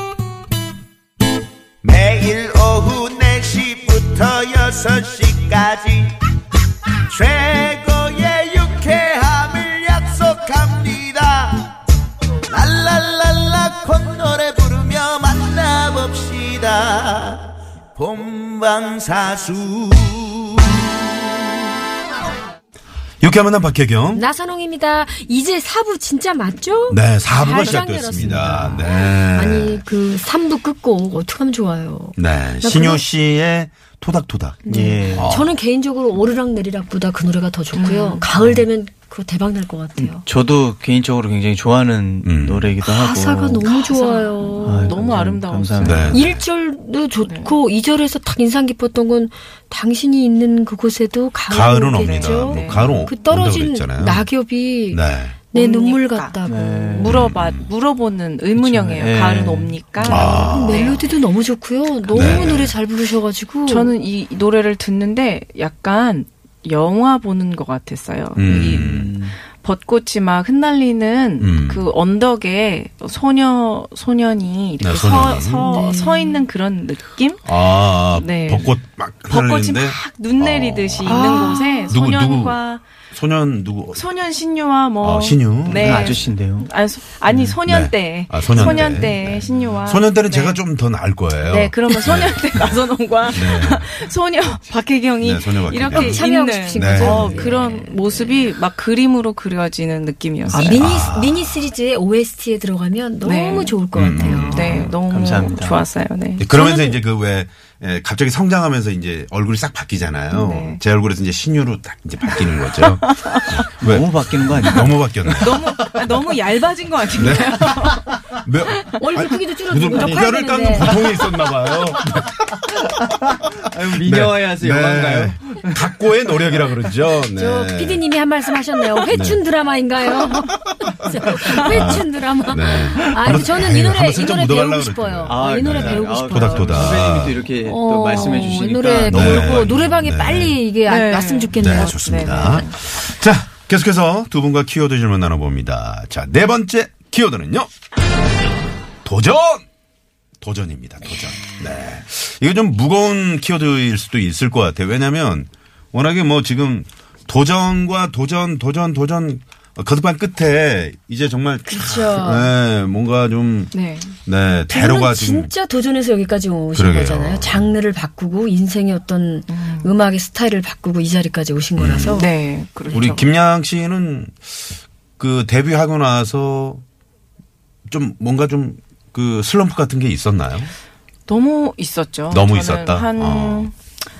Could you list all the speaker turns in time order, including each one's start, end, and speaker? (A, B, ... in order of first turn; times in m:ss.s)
0:01.8-0:06.1 A
0:07.1-0:11.8 A
0:12.5-0:20.6 A
0:23.2-0:24.3 B
0:24.1-0:33.0 C
0:26.9-0:29.8 B
0:28.2-0:28.5 D
0:32.2-0:34.6 B
0:34.7-0:40.2 C
0:34.7-0:35.3 D
0:35.2-0:35.6 B
0:37.7-0:38.3 E
0:38.4-0:38.6 D
0:40.0-0:43.7 D
0:42.2-0:42.8 B
0:42.8-0:45.0 C
0:43.7-0:46.2 E
0:44.6-0:46.3 D
0:45.8-0:46.4 B
0:46.1-0:57.2 C
0:47.2-0:47.6 E
0:51.5-0:54.3 B
0:52.0-0:53.1 E
0:54.9-0:55.4 B
0:55.5-0:56.4 E
0:56.5-0:57.2 D
0:57.0-1:01.0 E
0:57.1-0:57.7 B
0:58.5-0:59.8 D
1:00.0-1:01.0 B
1:00.1-1:03.9 C
1:02.1-1:02.5 E
1:02.1-1:02.8 B
1:03.7-1:18.8 E
1:08.4-1:09.1 B
1:08.5-1:09.4 D
1:11.4-1:11.9 B
1:14.8-1:15.8 B
1:15.6-1:16.4 C
1:17.5-1:24.0 B
1:19.3-1:22.8 E
1:21.1-1:21.9 C
1:21.1-1:21.4 D
1:23.9-1:30.6 E
1:25.0-1:26.2 B
1:25.6-1:26.7 D
1:27.3-1:33.9 B
1:28.6-1:28.9 D
1:31.4-1:40.8 E
1:35.2-1:37.4 B
1:35.9-1:38.4 C
1:40.5-1:44.9 C
1:40.6-1:41.6 B
1:43.2-1:46.5 E
1:43.9-1:45.0 B
1:45.1-1:45.9 D
1:46.4-1:56.4 B
1:46.5-1:47.0 C
1:50.3-1:50.8 E
1:52.7-1:53.4 E
1:53.8-1:55.4 D
1:55.4-1:58.1 E
1:57.1-2:03.3 B
1:59.0-2:01.0 C
2:00.8-2:01.2 D
2:03.0-2:05.8 D
2:03.9-2:08.0 B
2:07.3-2:17.1 C
2:09.1-2:09.4 B
2:11.3-2:17.4 B
2:15.3-2:20.0 D
2:17.6-2:22.7 C
2:19.1-2:20.6 B
2:20.9-2:22.8 E
2:21.6-2:27.7 B
2:29.0-2:29.6 B
2:30.4-2:45.5 B
2:41.7-2:42.5 C
2:43.7-2:44.2 E
2:44.7-2:52.3 C
2:46.7-2:47.7 B
2:49.5-2:49.9 E
2:51.8-2:52.2 B
2:52.1-2:53.3 E
2:52.9-2:54.7 B
2:55.2-2:56.8 B
2:57.9-3:00.7 B
3:01.3-3:03.8 E
3:02.3-3:03.7 B